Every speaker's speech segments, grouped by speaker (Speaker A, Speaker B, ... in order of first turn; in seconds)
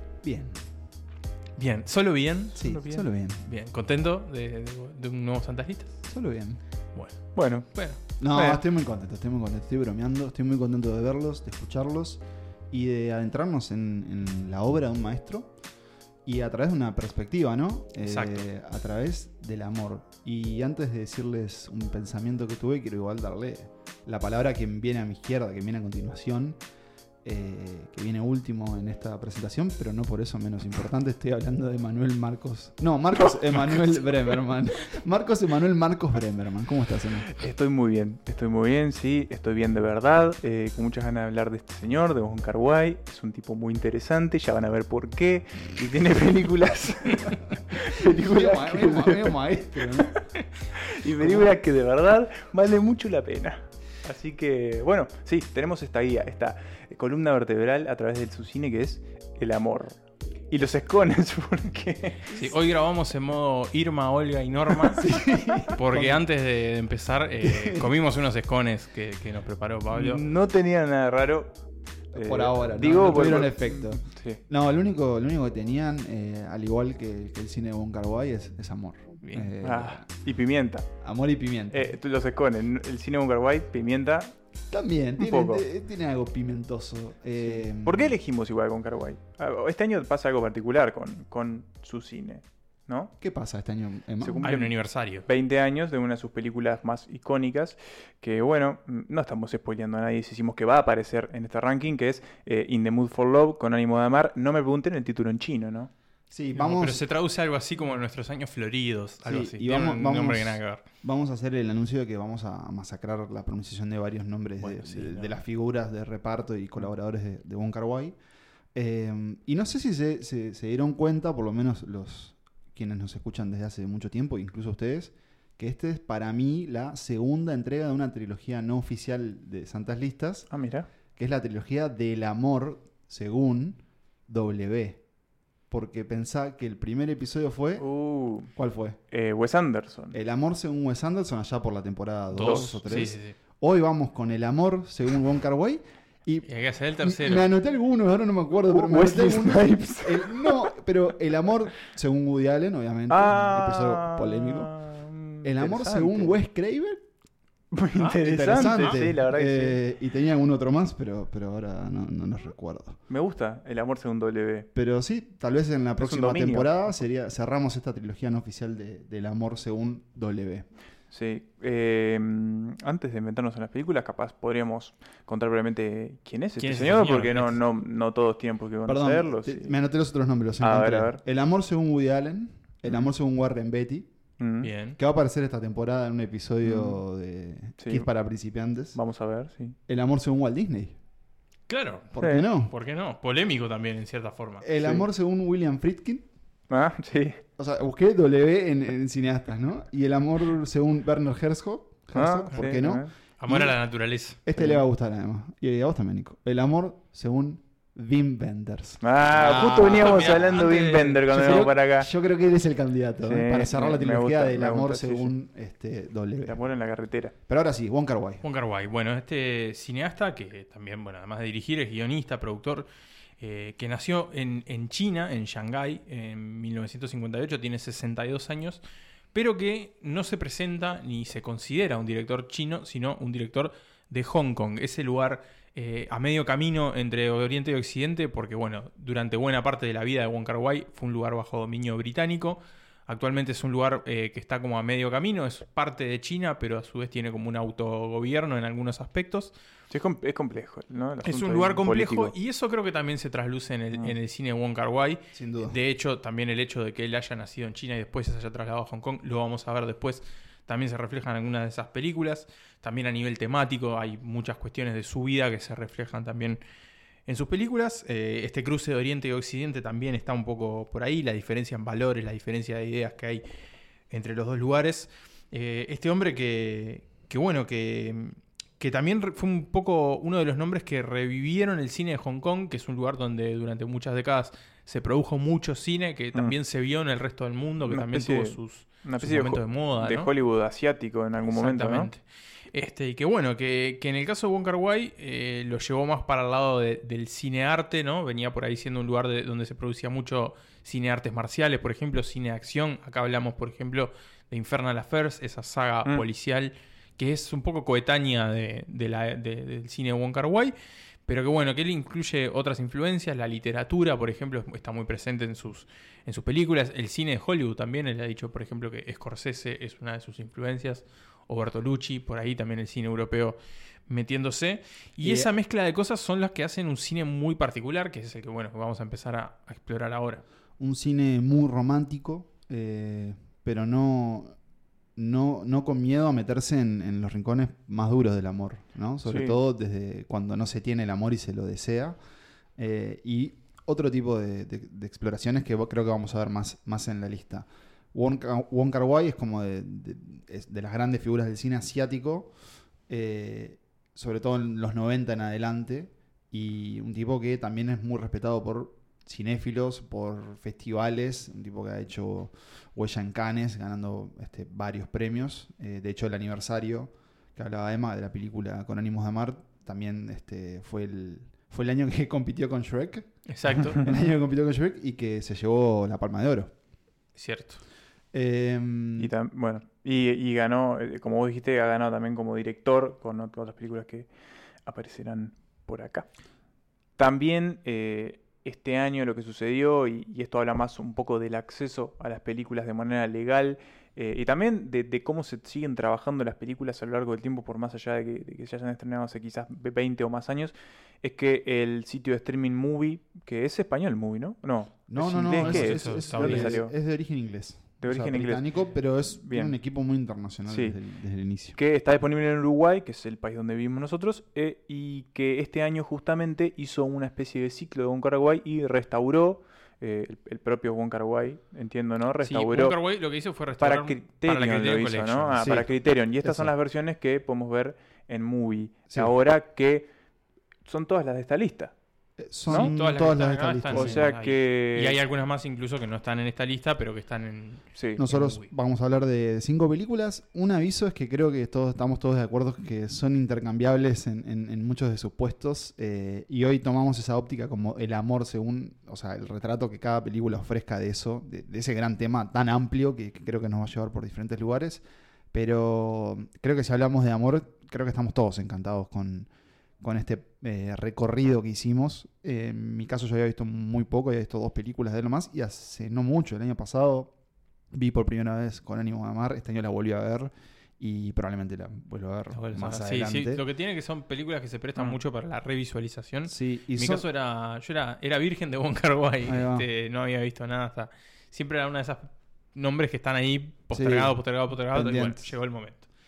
Speaker A: 0.2-0.6, 2.6-3.4, 6.0-6.6, 8.2-15.5, 16.2-26.6, 27.2-37.3, 48.0-50.2, 65.0-66.2, 67.4-67.9, 72.1-80.1, 81.0-82.0, 84.7-88.2, 93.2-94.5, 106.3-107.0, 109.2-118.2, 118.7-130.5, 131.2-135.0, 135.7-137.9, 138.6-139.0, 140.1-154.7, 155.4-157.0, 158.2-163.0, 164.8-170.7, 178.8-184.1, 185.0-189.0, 189.9-191.0, 192.2-192.7, 194.6-196.3, 197.6-203.8, 204.4-216.6, 217.5-218.4, 255.3-255.8, 325.2-325.5, 330.8-334.6, 335.2-342.2, 342.8-352.5, 353.1-376.7, 378.3-379.3, 405.1-411.8, 425.6-426.7, 432.4-434.3, 438.2-459.5, 460.0-467.3, 467.9-473.6, 476.5-477.2, 479.4-479.9, 483.9-485.6
Speaker B: 1.6-6.0, 6.9-8.0, 18.0-18.4, 62.3-65.2, 65.7-70.2, 79.2-79.5, 94.4-95.3, 106.5-110.8, 114.6-115.3, 142.3-143.3, 146.5-147.5, 157.9-159.0, 176.6-177.6, 184.6-185.0, 191.7-194.7, 203.4-204.4, 210.0-211.2, 218.4-222.9, 223.4-228.8, 229.3-249.5, 251.2-266.6, 267.3-273.4, 274.1-290.3, 291.4-310.7, 311.3-323.6, 324.1-330.4, 373.5-374.0, 377.4-377.8, 405.6-406.8, 422.4-425.8, 432.7-438.7, 472.5-486.1
Speaker C: 7.3-8.6, 37.4-50.2, 50.8-60.0, 60.5-62.4, 69.9-71.5, 72.1-74.4, 79.6-80.9, 81.7-84.3, 85.2-85.6, 87.4-93.1, 94.2-105.9, 130.5-130.9, 137.8-138.5, 139.1-140.2, 142.4-143.1, 148.7-150.7, 153.1-156.3, 157.7-159.8, 163.1-164.7, 166.0-166.7, 171.1-179.8, 180.6-181.2, 182.9-183.1, 184.4-184.7, 186.6-187.0, 187.8-188.1, 188.9-189.8, 192.2-192.5, 194.8-195.1, 196.7-197.4, 202.1-203.1, 209.0-212.1, 213.3-215.3, 216.4-217.3, 249.9-252.3, 287.9-292.1, 339.3-339.6, 379.2-384.3, 384.9-386.3, 387.2-406.9, 408.0-409.8, 410.7-411.0, 411.7-423.0, 423.8-430.1, 430.9-431.9, 433.9-435.2, 438.0-438.2